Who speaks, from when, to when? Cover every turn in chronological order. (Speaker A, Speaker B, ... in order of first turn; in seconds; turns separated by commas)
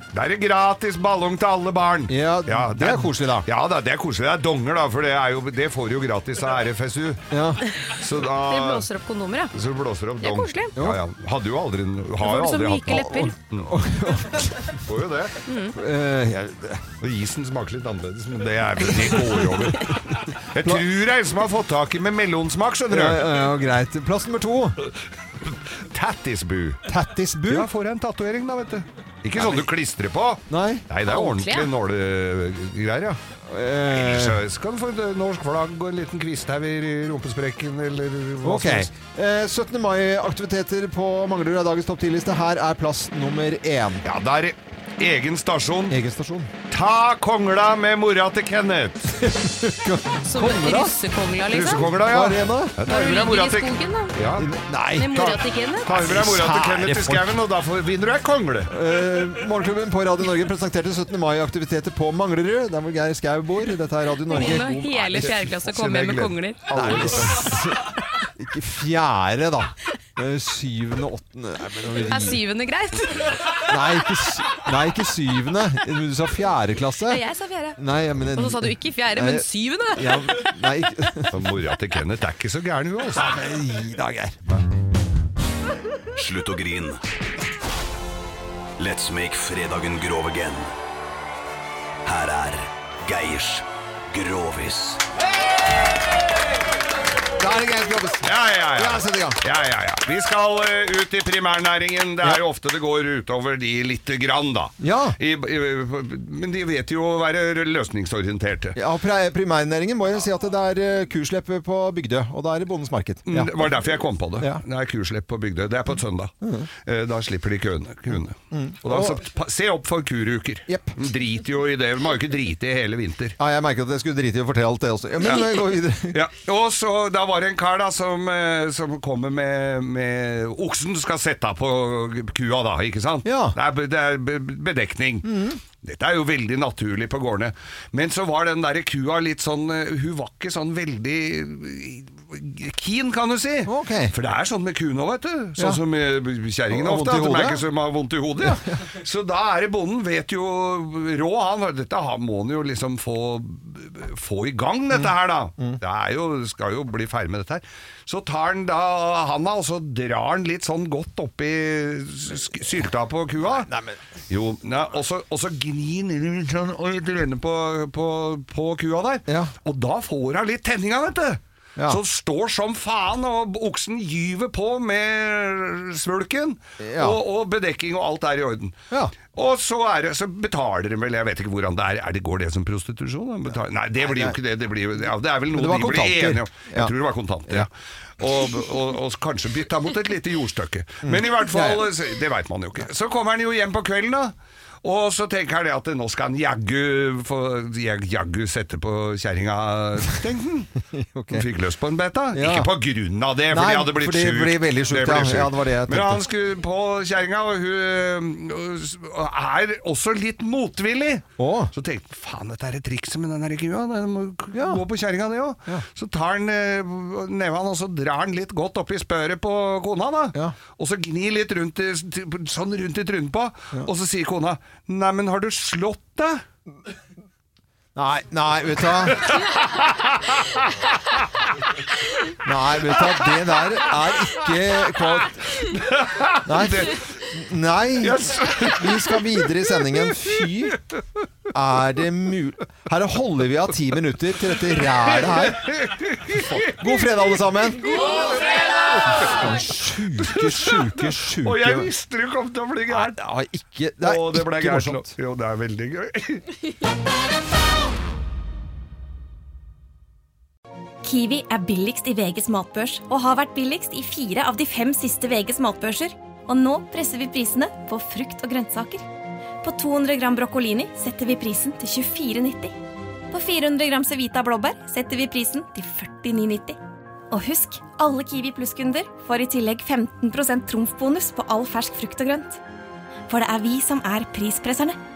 Speaker A: 0.1-7.3, Speaker B: 2.1-3.5, Speaker B: 7.3-7.7, Speaker A: 7.8-8.9, Speaker C: 8.2-9.5, Speaker A: 9.5-13.7, Speaker C: 10.2-10.8, Speaker C: 12.2-13.3, Speaker B: 12.9-14.8, Speaker A: 14.8-15.4, Speaker C: 15.4-15.8, Speaker B: 15.7-16.9, Speaker A: 17.0-23.3, Speaker B: 22.9-24.8, Speaker A: 25.4-26.8, Speaker B: 26.9-27.7, Speaker A: 27.5-33.2, Speaker B: 29.4-29.6, Speaker B: 30.5-30.9, Speaker C: 31.1-31.7, Speaker B: 33.5-34.4, Speaker A: 33.9-38.9, Speaker B: 38.4-44.0, Speaker A: 44.0-46.0, Speaker B: 45.9-46.5, Speaker A: 46.7-49.3, Speaker B: 49.2-51.0, Speaker C: 50.2-51.9, Speaker A: 51.5-54.5, Speaker B: 51.9-52.8, Speaker C: 52.9-54.1, Speaker B: 54.3-55.2, Speaker C: 55.0-55.9, Speaker A: 55.1-58.7, Speaker B: 55.9-57.4, Speaker B: 58.7-65.4, Speaker C: 64.3-66.7, Speaker A: 64.5-67.6, Speaker B: 66.7-72.4, Speaker C: 72.1-73.7, Speaker B: 73.5-77.2, Speaker C: 77.1-80.4, Speaker B: 77.8-81.4, Speaker A: 81.3-83.3, Speaker B: 83.1-84.4, Speaker D: 86.2-87.0, Speaker D: 88.8-90.7, Speaker D: 92.0-95.0, Speaker B: 97.4-99.4, Speaker A: 98.2-108.8, Speaker B: 104.8-105.2, Speaker B: 108.8-113.8, Speaker A: 113.3-116.3, Speaker B: 116.4-116.7, Speaker A: 116.8-123.4, Speaker B: 118.5-119.2, Speaker B: 120.7-121.0, Speaker B: 123.4-126.2, Speaker A: 125.2-125.6, Speaker A: 126.1-163.7, Speaker B: 133.2-133.6, Speaker B: 135.2-135.6, Speaker B: 143.7-144.1, Speaker B: 146.7-147.6, Speaker B: 148.4-148.8, Speaker B: 154.9-155.8, Speaker B: 163.5-164.0, Speaker A: 164.3-200.7, Speaker B: 169.3-169.5, Speaker B: 176.8-177.2, Speaker B: 184.0-184.4, Speaker B: 185.5-186.9, Speaker B: 191.0-191.9, Speaker B: 200.9-201.4, Speaker A: 201.3-226.4, Speaker B: 202.3-202.7, Speaker B: 203.5-206.2, Speaker B: 211.4-211.7, Speaker B: 214.5-214.8, Speaker B: 227.9-229.4, Speaker A: 229.1-231.2, Speaker B: 232.4-235.5, Speaker A: 235.6-237.2, Speaker B: 236.4-240.8, Speaker A: 238.0-241.0, Speaker B: 241.5-245.7, Speaker A: 244.8-246.8, Speaker B: 246.3-248.2, Speaker A: 247.8-249.6, Speaker B: 249.0-251.9, Speaker A: 250.3-253.2, Speaker B: 252.9-255.1, Speaker A: 254.0-256.6, Speaker E: 261.0-269.0, Speaker E: 269.6-272.7, Speaker E: 273.3-276.8, Speaker E: 277.3-282.6, Speaker E: 283.3-285.0